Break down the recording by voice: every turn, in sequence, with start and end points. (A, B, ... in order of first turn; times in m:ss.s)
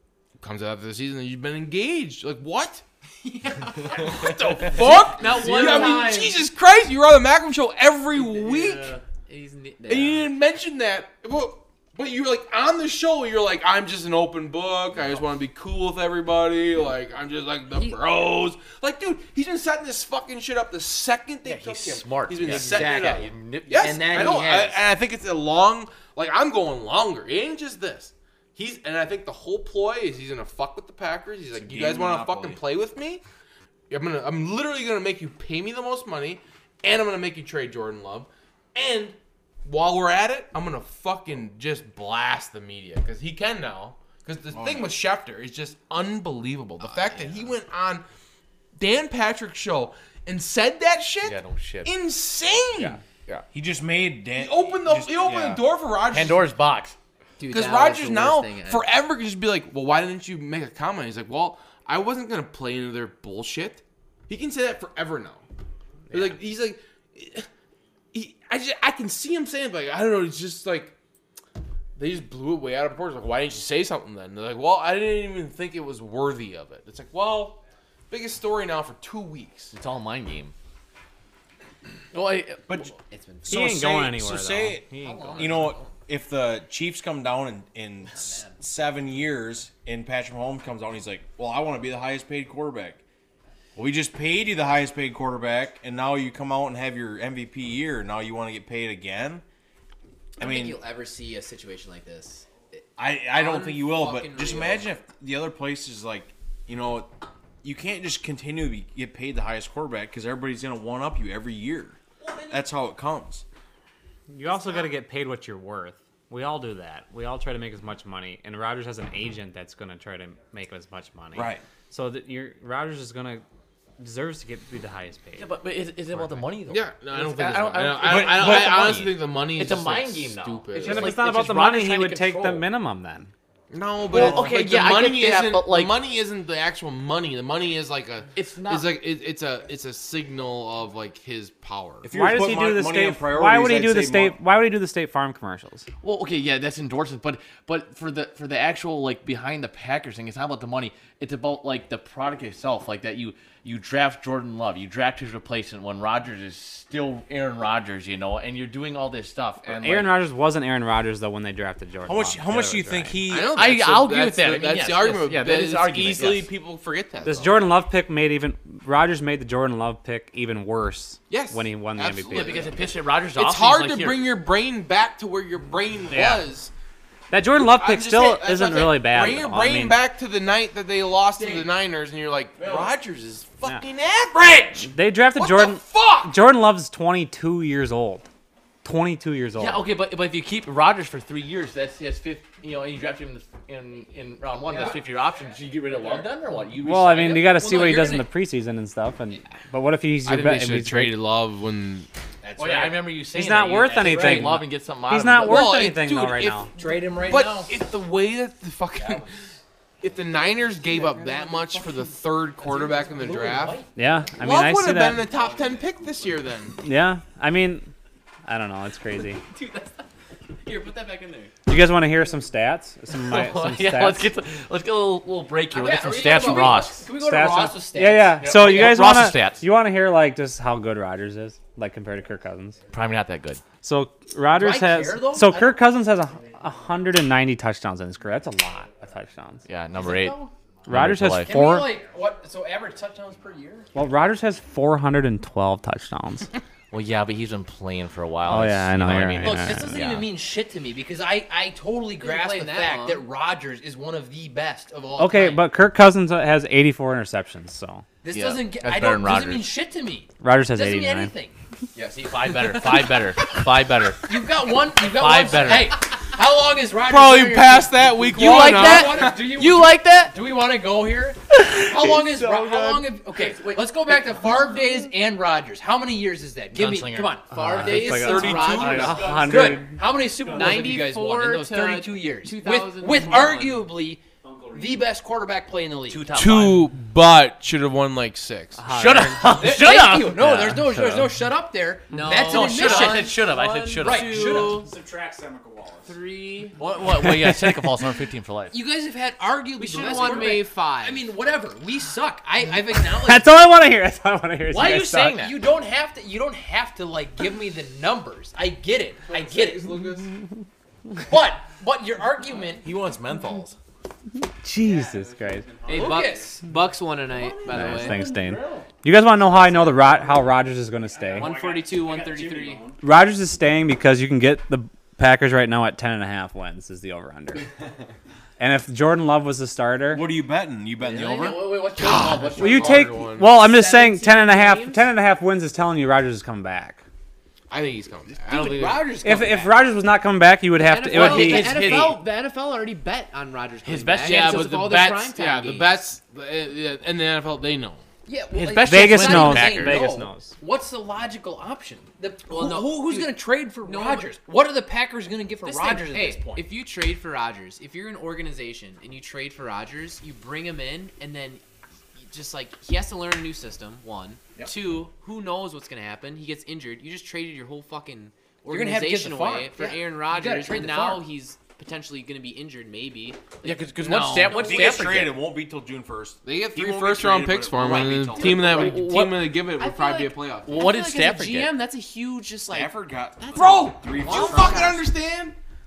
0:00.4-0:02.8 A
0:03.2-0:06.4 B
0:04.0-0:08.9 A
0:05.3-0:06.1 C
0:08.2-0:10.3 B
0:09.9-0:33.2 A
0:17.7-0:18.0 C
0:21.4-0:24.3 D
0:22.4-0:24.8 C
0:31.5-0:32.6 E
0:33.9-0:48.0 A
0:44.5-0:45.0 E
0:48.8-0:53.0 A
0:51.2-0:51.9 D
0:52.8-0:53.5 D
0:53.5-0:55.6 E
0:54.4-0:56.5 A
0:56.1-0:57.0 D
0:57.4-0:58.9 B
0:57.5-1:05.4 A
1:06.1-1:07.5 A
1:08.1-1:11.0 A
1:12.0-1:19.7 A
1:19.7-1:20.5 D
1:22.1-1:22.9 D
1:22.7-1:23.0 E
1:23.0-1:23.6 B
1:23.5-1:33.0 E
1:23.5-1:25.8 F
1:25.0-1:25.9 C
1:33.8-1:39.4 E
1:40.4-1:44.9 B
1:40.4-1:40.8 E
1:43.0-1:53.4 E
1:54.3-2:03.4 F
2:01.3-2:01.6 E
2:04.0-2:05.6 F
2:05.4-2:12.7 D
2:06.7-2:11.2 A
2:08.0-2:09.1 E
2:10.8-2:13.3 F
2:13.7-2:22.1 A
2:14.1-2:16.0 D
2:14.1-2:14.5 E
2:18.4-2:19.0 D
2:22.0-2:24.4 E
2:22.1-2:25.9 F
2:26.0-2:40.1 D
2:39.7-2:43.2 F
2:42.1-2:43.6 E
2:43.3-2:47.7 A
2:43.5-2:46.5 D
2:47.2-2:52.7 F
2:51.3-2:52.7 A
2:52.3-2:54.3 D
2:53.4-2:56.7 A
2:56.1-2:56.5 F
2:57.3-3:00.0 F
2:57.6-3:06.4 A
3:02.6-3:03.0 E
3:04.9-3:08.2 F
3:08.8-3:09.8 F
3:09.6-3:17.5 D
3:14.7-3:15.0 C
3:15.9-3:16.3 C
3:16.8-3:21.2 F
3:17.2-3:18.3 C
3:20.2-3:22.1 A
3:22.4-3:23.1 C
3:22.6-3:25.7 D
3:23.3-3:26.7 F
3:23.9-3:24.6 C
3:25.4-3:29.3 A
3:26.7-3:27.8 C
3:29.0-3:29.3 C
3:30.0-3:33.8 A
3:32.6-3:34.0 C
3:34.0-3:35.2 F
3:34.4-3:36.8 A
3:36.8-3:37.9 F
3:38.5-3:39.4 F
3:39.2-3:40.0 B
3:40.7-3:41.5 B
3:41.7-3:44.3 F
3:43.2-3:47.0 D
3:45.7-3:49.0 C
3:46.5-3:46.8 B
3:46.5-3:52.8 F
3:48.4-3:49.6 D
3:52.9-3:53.6 D
3:53.8-3:59.7 F
3:54.5-3:55.8 C
3:59.7-4:01.6 D
3:59.9-4:00.5 C
4:00.9-4:02.0 F
4:01.4-4:03.9 C
4:03.9-4:06.5 F
4:06.9-4:10.3 D
4:08.5-4:10.2 F
4:09.4-4:15.6 C
4:12.2-4:13.2 B
4:15.2-4:18.0 F
4:18.2-4:21.6 C
4:18.3-4:19.7 D
4:20.4-4:21.3 F
4:22.0-4:24.3 D
4:24.3-4:46.2 C
4:25.0-4:26.0 D
4:27.0-4:29.4 A
4:28.4-4:30.3 D
4:33.4-4:33.9 B
4:36.7-4:38.1 D
4:37.5-4:39.8 B
4:37.5-4:40.0 F
4:38.2-4:39.4 A
4:39.1-4:40.9 G
4:40.4-4:43.9 B
4:44.4-4:45.2 G
4:46.1-4:46.9 D
4:46.3-4:48.8 A
4:48.8-4:49.6 F
4:48.9-4:50.5 D
4:49.6-4:53.4 C
4:50.3-4:51.4 F
4:52.1-4:54.9 B
4:52.4-4:54.8 D
4:54.0-4:54.9 C
4:54.6-4:56.2 G
4:56.0-4:56.8 B
4:56.8-4:58.7 D
4:57.4-4:57.8 F
4:58.7-5:03.5 C
4:59.8-5:01.2 B
5:03.2-5:05.3 F
5:04.7-5:05.6 D
5:04.9-5:09.9 C
5:09.3-5:10.4 A
5:11.2-5:12.9 C
5:12.8-5:13.8 E
5:14.6-5:15.7 F
5:14.8-5:16.3 G
5:15.9-5:18.3 B
5:15.9-5:16.6 C
5:17.4-5:20.4 G
5:17.7-5:21.6 F
5:21.2-5:23.0 G
5:21.3-5:22.9 B
5:23.0-5:27.6 F
5:28.6-5:30.3 F
5:30.1-5:31.6 E
5:31.1-5:33.0 B
5:32.0-5:33.6 A
5:32.0-5:32.6 D
5:32.6-5:37.0 F
5:33.6-5:35.1 B
5:37.7-5:39.0 A
5:38.5-5:39.8 C
5:39.0-5:39.4 B
5:39.2-5:42.1 F
5:40.8-5:46.0 B
5:41.1-5:42.2 D
5:43.8-5:45.2 D
5:44.2-5:48.0 A
5:48.3-5:56.7 C
5:48.6-5:50.0 D
5:48.8-5:50.6 F
5:52.5-5:54.3 B
5:55.6-6:01.6 B
6:02.2-6:15.3 B
6:08.7-6:11.3 C
6:13.6-6:15.3 D
6:14.5-6:18.6 E
6:16.4-6:20.9 A
6:17.9-6:25.0 B
6:18.4-6:19.6 D
6:20.6-6:21.7 D
6:22.7-6:25.0 E
6:23.6-6:25.6 A